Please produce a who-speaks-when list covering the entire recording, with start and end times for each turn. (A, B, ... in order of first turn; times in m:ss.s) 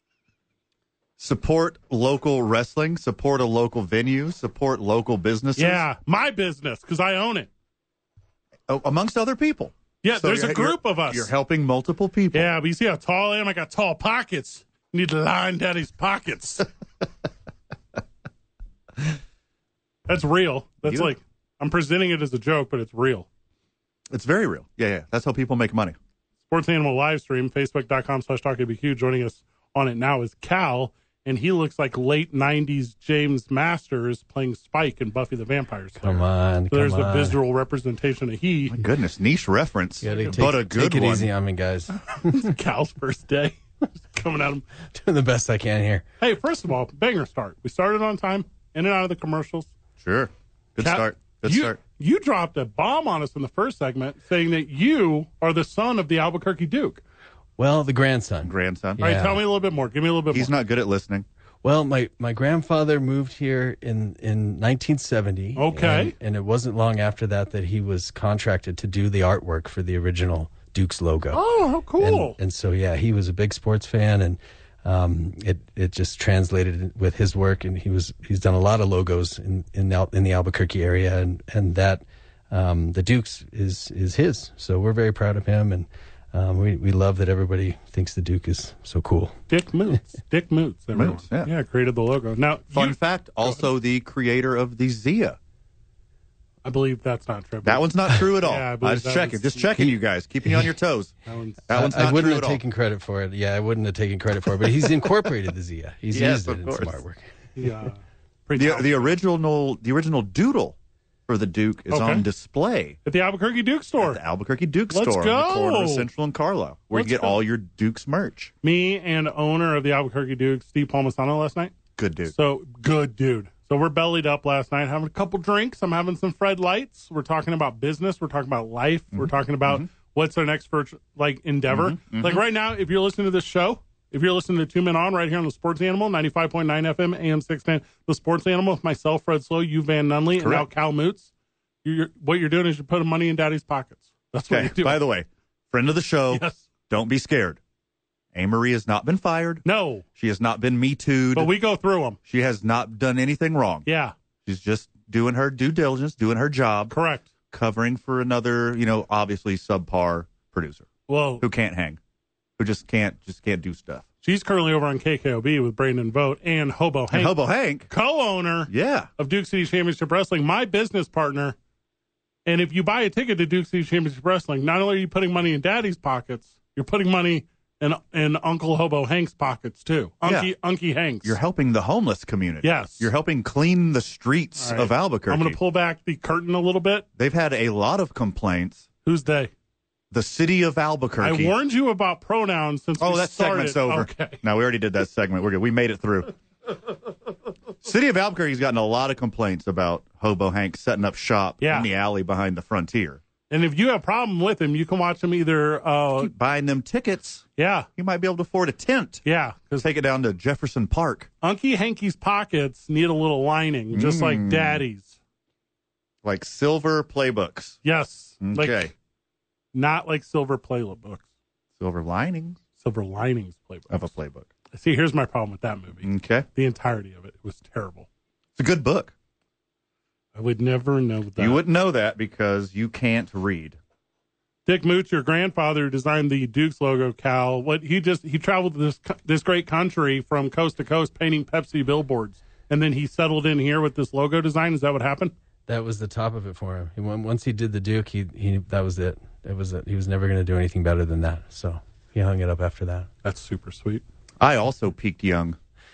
0:01.2-0:05.8 A
0:05.6-0:07.5 B
0:08.7-0:12.5 A
0:10.0-0:11.3 B
0:12.3-0:16.7 B
0:20.1-0:23.3 B
0:20.8-0:21.1 A
0:24.1-0:26.0 A
0:26.5-0:38.8 B
0:36.0-0:37.4 C
0:38.7-0:41.3 A
0:40.0-0:42.5 C
0:40.1-0:40.5 B
0:42.2-0:44.6 B
0:44.9-0:46.0 C
0:46.2-0:49.7 B
0:50.0-0:51.8 A
0:50.8-0:57.0 B
0:57.6-0:59.4 C
0:58.4-0:59.0 A
0:59.0-1:00.5 B
1:00.3-1:01.3 A
1:01.6-1:11.4 C
1:05.6-1:06.2 B
1:11.3-1:12.4 B
1:12.0-1:29.4 C
1:29.5-1:33.6 B
1:31.0-1:31.5 A
1:32.7-1:35.4 A
1:36.6-1:39.9 B
1:37.6-1:41.1 A
1:41.3-1:41.8 B
1:41.7-1:42.6 A
1:41.7-1:47.2 C
1:46.1-1:47.0 A
1:47.6-1:49.2 B
1:48.6-1:50.8 A
1:51.3-1:53.0 A
1:51.9-1:52.3 B
1:53.1-1:54.2 B
1:54.0-1:58.5 A
1:54.9-1:56.1 B
1:56.9-1:57.4 B
1:58.6-2:01.7 B
2:02.0-2:02.3 A
2:02.3-2:21.3 B
2:09.1-2:09.9 A
2:11.7-2:12.4 A
2:20.4-2:20.7 A
2:21.8-2:25.0 B
2:24.5-2:27.6 A
2:26.3-2:26.6 B
2:28.3-2:29.6 A
2:29.6-2:30.0 B
2:30.2-2:31.5 A
2:31.3-2:32.2 B
2:32.3-2:33.9 A
2:33.9-2:34.1 B
2:34.4-2:36.9 A
2:36.9-2:37.3 B
2:37.5-2:40.9 A
2:41.1-2:41.4 B
2:41.4-2:42.0 A
2:42.6-2:44.0 A
2:44.2-2:47.4 B
2:47.1-2:47.9 A
2:47.9-2:51.6 B
2:48.7-2:49.1 A
2:52.4-3:01.4 B
3:00.2-3:00.5 A
3:01.2-3:05.6 A
3:02.6-3:03.1 B
3:04.6-3:07.1 B
3:07.2-3:08.9 A
3:09.0-3:09.5 B
3:10.1-3:11.5 A
3:11.2-3:14.4 B
3:13.0-3:16.4 A
3:17.8-3:23.2 A
3:21.6-3:21.9 B
3:23.5-3:26.3 B
3:26.2-3:27.4 A
3:27.6-3:27.9 B
3:28.0-3:29.2 A
3:29.2-3:29.9 B
3:29.8-3:31.3 A
3:31.4-3:35.2 B
3:33.9-3:34.8 A
3:36.2-3:37.8 A
3:37.8-3:38.9 B
3:38.4-3:38.9 A
3:39.7-3:41.3 B
3:41.8-3:42.6 A
3:42.8-3:44.1 B
3:43.9-3:44.5 A
3:44.7-3:48.1 B
3:46.0-3:46.5 A
3:48.6-3:49.1 A
3:50.4-3:51.6 B
3:51.4-3:53.8 A
3:54.7-4:05.3 B
4:05.7-4:13.1 C
4:13.2-4:14.0 B
4:14.4-4:15.6 A